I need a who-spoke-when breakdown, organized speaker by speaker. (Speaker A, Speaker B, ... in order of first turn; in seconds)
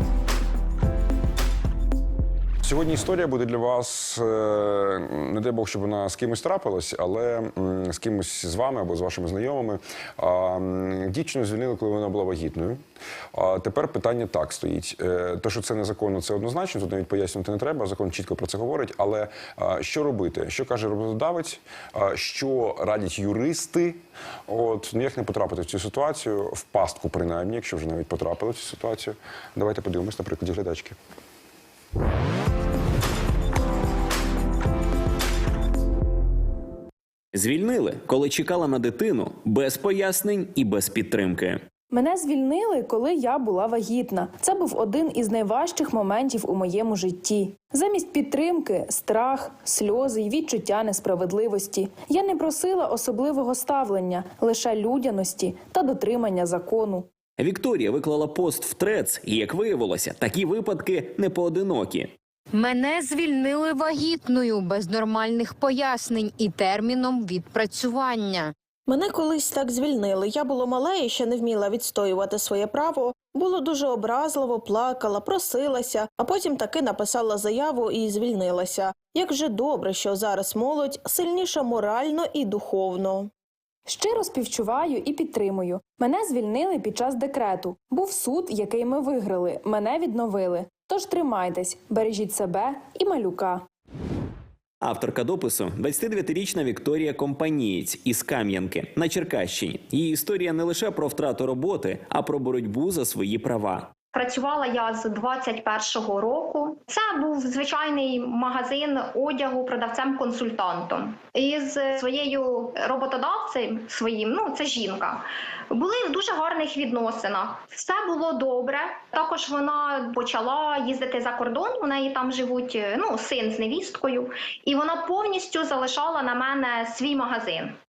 Speaker A: 2.6-12.8, 13.3-31.0
Speaker B: 37.3-41.6, 57.4-62.1, 94.8-103.9
Speaker C: 41.9-57.1, 83.9-93.6
Speaker D: 62.5-68.5
Speaker E: 68.9-83.3
Speaker F: 104.1-127.7